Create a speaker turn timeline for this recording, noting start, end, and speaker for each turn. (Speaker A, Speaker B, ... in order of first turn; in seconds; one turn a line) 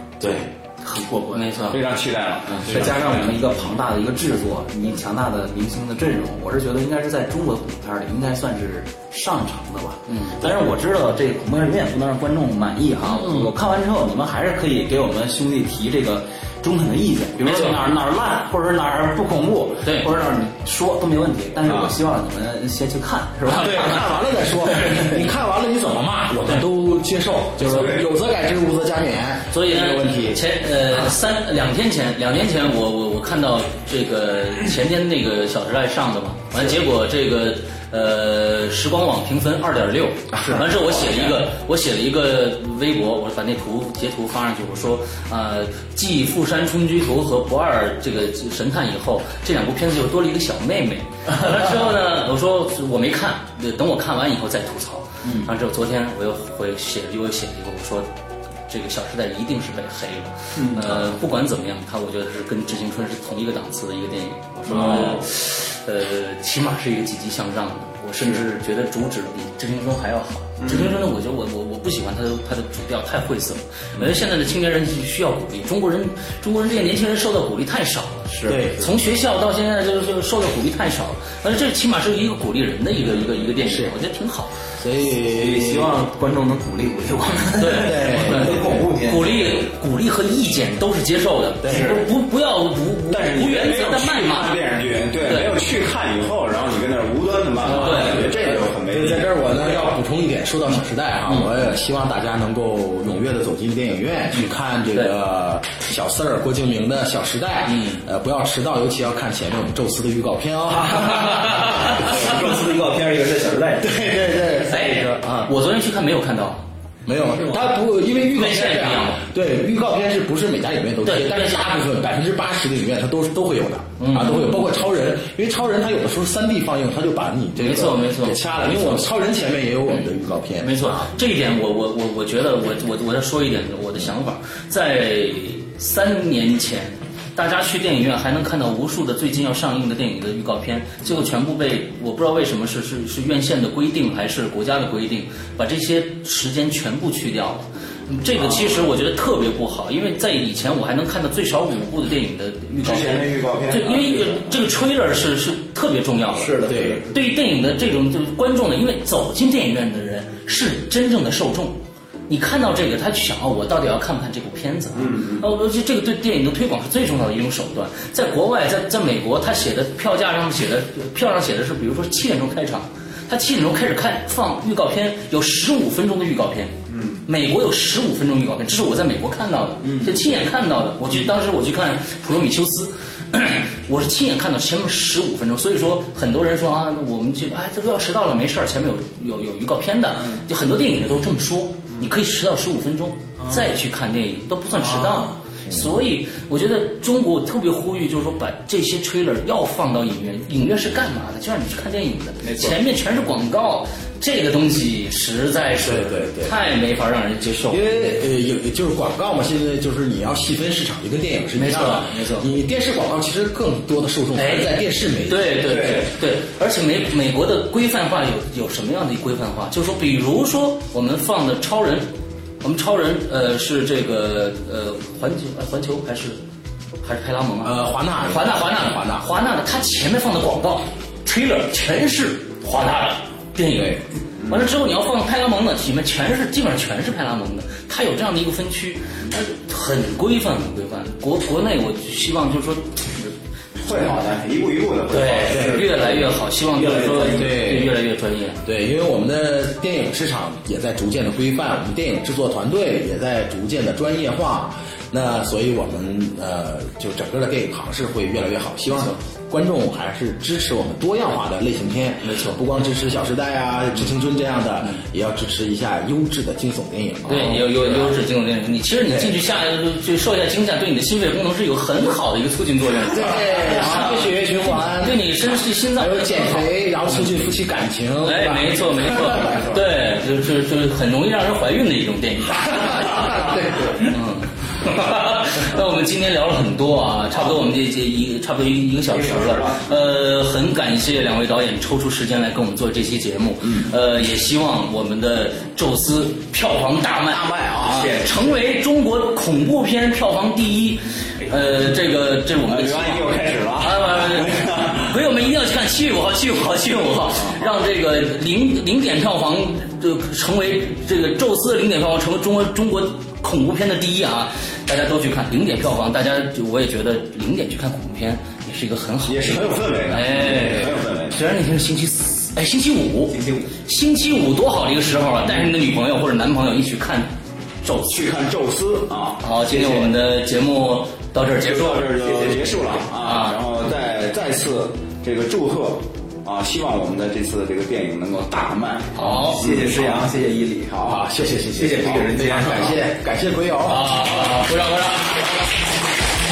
Speaker A: 0.2-0.5
Speaker B: 0.2-1.8
Speaker C: 1.3-1.8
Speaker D: 1.7-3.4
Speaker B: 2.5-24.2
Speaker C: 10.1-10.6
Speaker C: 13.0-13.5
Speaker C: 17.4-17.9
Speaker A: 23.4-30.4
Speaker B: 24.7-25.1
Speaker D: 27.6-28.0
Speaker C: 29.5-58.1
Speaker A: 40.3-40.9
Speaker B: 55.2-55.5
Speaker C: 58.7-84.5
Speaker B: 60.5-61.2
Speaker B: 64.7-65.2
Speaker B: 70.6-70.9
Speaker B: 78.3-78.9
Speaker A: 78.5-78.9
Speaker A: 83.6-84.0
Speaker A: 84.8-86.0
Speaker B: 85.2-89.7
Speaker C: 87.6-94.6
Speaker A: 87.7-88.7
Speaker A: 91.6-92.0
Speaker B: 91.7-92.0
Speaker D: 93.1-99.9
Speaker C: 95.2-95.6
Speaker C: 97.6-98.3
Speaker A: 97.6-112.3
Speaker C: 101.3-101.6
Speaker C: 104.3-105.1
Speaker C: 107.6-108.0
Speaker B: 111.0-115.5
Speaker C: 111.2-112.0
Speaker A: 113.8-115.3
Speaker C: 114.7-116.6
Speaker A: 117.0-131.1
Speaker B: 117.3-117.6
Speaker C: 118.2-119.2
Speaker C: 121.0-121.8
Speaker C: 124.0-124.8
Speaker C: 127.5-129.0
Speaker C: 130.6-207.8
Speaker B: 148.4-148.9
Speaker D: 152.8-154.6
Speaker B: 156.3-157.2
Speaker A: 156.7-157.0
Speaker B: 165.2-165.4
Speaker B: 176.9-177.2
Speaker B: 179.8-180.4
Speaker B: 190.2-190.4
Speaker B: 193.4-193.7
Speaker B: 194.7-195.4
Speaker A: 195.7-195.9
Speaker B: 202.4-202.8
Speaker A: 205.8-206.5
Speaker A: 207.7-215.7
Speaker C: 211.5-212.5
Speaker C: 214.3-226.4
Speaker D: 215.6-216.1
Speaker C: 227.0-243.3
Speaker A: 227.6-229.3
Speaker D: 243.8-247.6
Speaker C: 245.1-248.6
Speaker A: 245.5-245.8
Speaker A: 247.3-248.0
Speaker A: 248.6-268.1
Speaker C: 262.2-262.6
Speaker C: 267.3-277.5
Speaker A: 269.1-269.4
Speaker A: 273.1-275.4
Speaker A: 275.9-279.6
Speaker C: 278.2-327.3
Speaker A: 282.6-284.1
Speaker D: 289.1-289.8
Speaker D: 293.6-293.9
Speaker D: 297.3-298.3
Speaker B: 297.5-298.6
Speaker D: 302.6-305.2
Speaker D: 319.2-321.4
Speaker B: 323.3-323.7
Speaker C: 327.8-328.2
Speaker D: 328.1-330.1
Speaker C: 329.4-332.6
Speaker D: 331.5-340.4
Speaker B: 332.4-332.7
Speaker C: 333.2-333.6
Speaker C: 339.1-339.6
Speaker B: 339.3-343.1
Speaker A: 340.9-344.6
Speaker C: 343.9-345.6